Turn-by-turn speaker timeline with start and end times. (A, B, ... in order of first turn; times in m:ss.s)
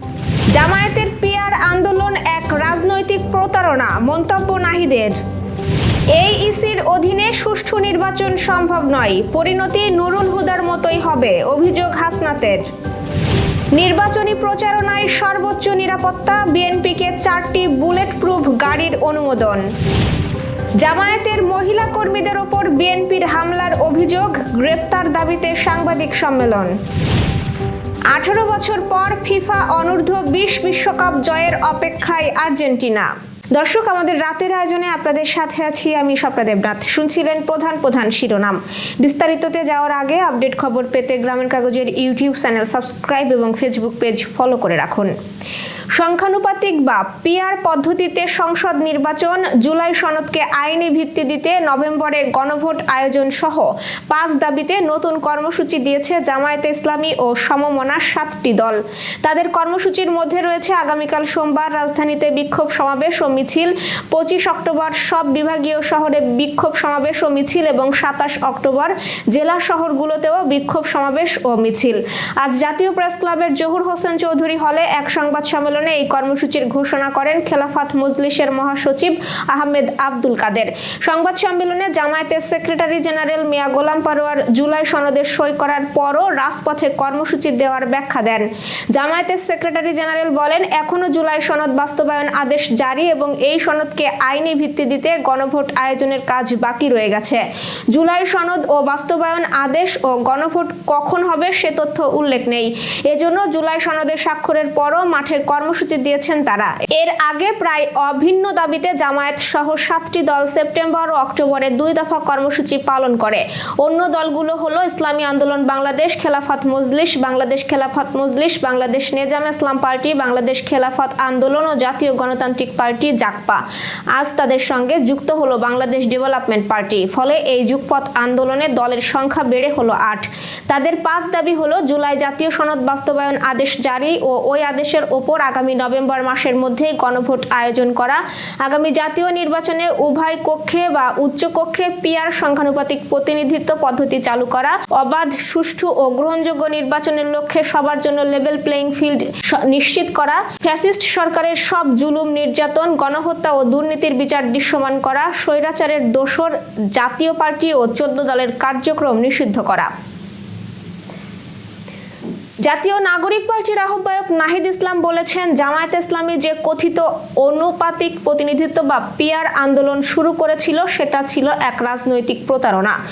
0:00.5-0:05.2 A
0:06.1-0:12.6 A
0:13.7-0:19.6 A
0:20.8-0:26.7 A
0:28.1-0:45.1 A
0:45.9-2:03.6 A
2:04.1-2:39.9 A
2:42.6-2:53.0 A